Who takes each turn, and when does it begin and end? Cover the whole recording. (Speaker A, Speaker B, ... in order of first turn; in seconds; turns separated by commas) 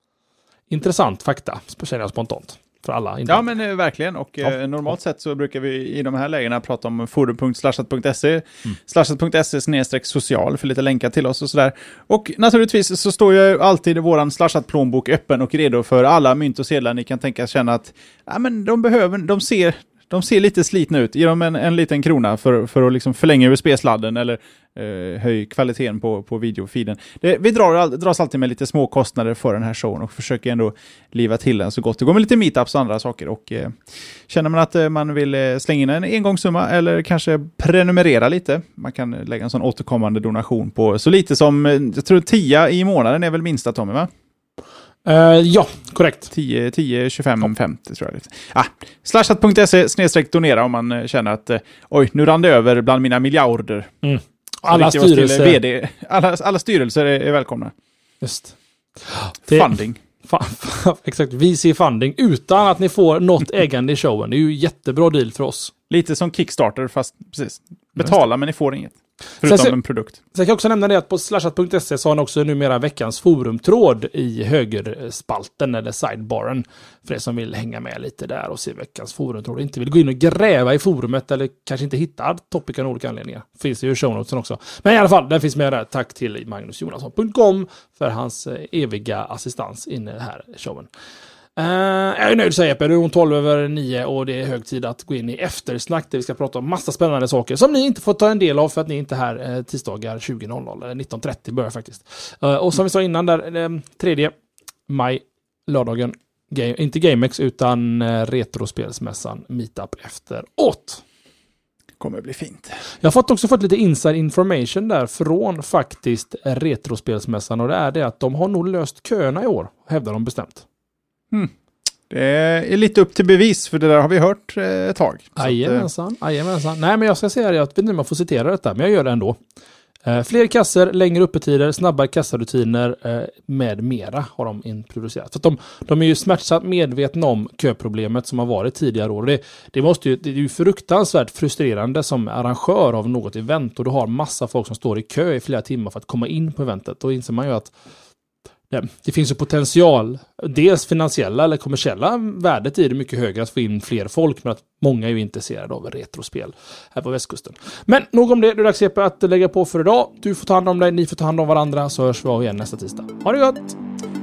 Speaker A: 0.7-3.5, Speaker B: 3.3-44.1, Speaker A: 45.0-46.3, Speaker B: 46.3-53.9, Speaker A: 54.0-55.6, Speaker B: 54.6-57.7, Speaker A: 58.2-65.7, Speaker B: 59.5-60.0, Speaker B: 65.9-70.2, Speaker A: 69.4-69.8, Speaker A: 70.3-90.9, Speaker A: 91.5-104.3, Speaker A: 104.9-111.0, Speaker B: 112.0-112.8, Speaker A: 113.0-120.6, Speaker B: 122.1-125.9, Speaker A: 125.4-129.4, Speaker A: 130.0-147.7, Speaker A: 148.7-163.8